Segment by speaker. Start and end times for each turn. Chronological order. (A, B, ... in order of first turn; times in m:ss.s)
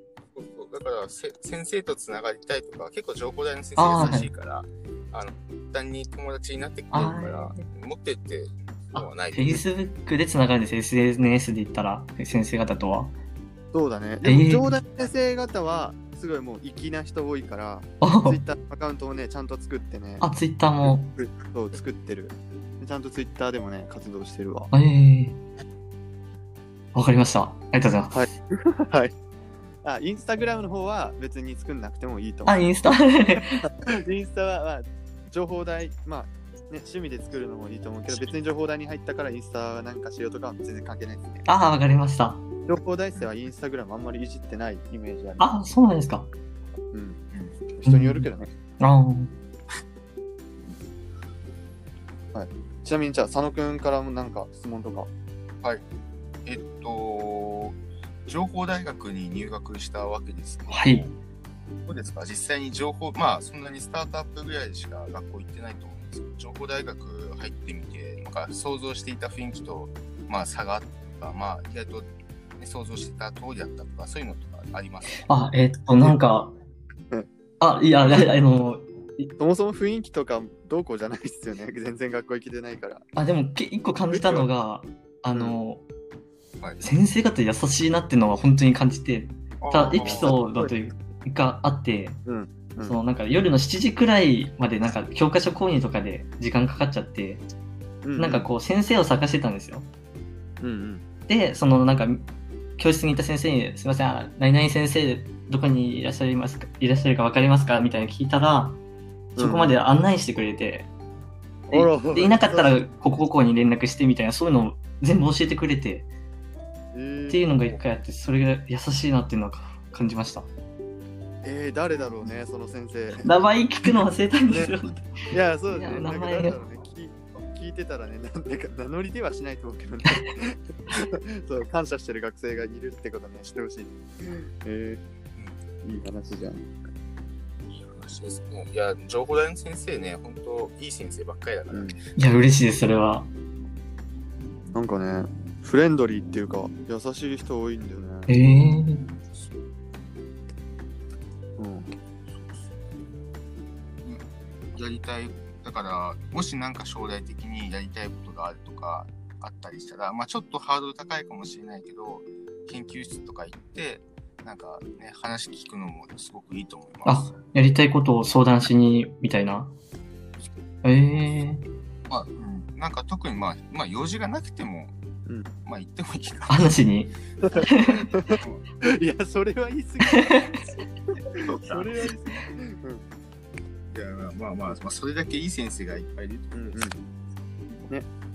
0:00.3-0:09.6 A
0:03.8-0:04.3 B
0:06.9-0:07.6 B
0:08.9-0:13.1 B
0:13.7-0:20.3 C
0:14.2-0:14.8 B
0:18.0-0:18.4 B
0:20.2-0:21.1 B
0:20.8-0:24.7 C
0:24.7-0:25.4 B
0:26.9-0:28.3 B
0:28.1-0:29.1 C
0:29.8-0:32.6 C
0:32.4-0:33.6 B
0:33.4-0:41.4 C
0:41.4-0:42.4 B
0:42.7-0:45.5 C
0:45.4-0:46.3 B
0:46.9-0:47.2 C
0:47.3-0:47.6 A
0:47.8-0:48.5 C
0:47.9-0:48.3 B
0:48.8-0:49.3 B
0:52.3-0:55.1 C
0:56.4-1:01.1 A
1:00.7-1:01.2 B
1:01.9-1:15.3 A
1:15.2-1:16.5 B
1:17.6-1:19.3 B
1:19.4-1:23.1 C
1:23.2-1:25.8 B
1:24.1-1:24.5 C
1:25.3-1:25.6 C
1:26.6-1:26.8 A
1:26.8-1:32.2 B
1:29.6-1:30.3 A
1:29.8-1:30.7 C
1:32.2-1:33.0 C
1:32.8-1:37.4 B
1:38.0-1:38.5 C
1:38.2-1:39.9 B
1:40.6-1:41.0 C
1:41.3-1:48.8 B
1:49.4-1:49.8 C
1:49.4-1:50.9 B
1:51.7-1:52.9 C
1:51.7-1:56.1 B
1:56.9-1:57.8 C
1:57.3-2:00.5 B
2:01.4-2:03.4 C
2:03.2-2:06.6 B
2:04.5-2:04.7 C
2:05.3-2:15.0 C
2:15.8-2:16.7 C
2:17.7-2:22.0 A
2:21.7-2:22.0 C
2:22.2-2:23.3 B
2:24.7-2:28.3 C
2:28.3-2:29.0 B
2:31.6-2:31.9 C
2:34.7-2:47.3 A
2:47.0-2:49.7 B
2:50.8-2:51.6 B
2:52.1-2:54.9 A
2:55.6-2:56.7 A
2:56.5-2:58.1 B
2:57.4-3:00.7 C
3:01.4-3:02.1 A
3:01.5-3:03.0 C
3:03.9-3:06.9 A
3:06.5-3:07.0 C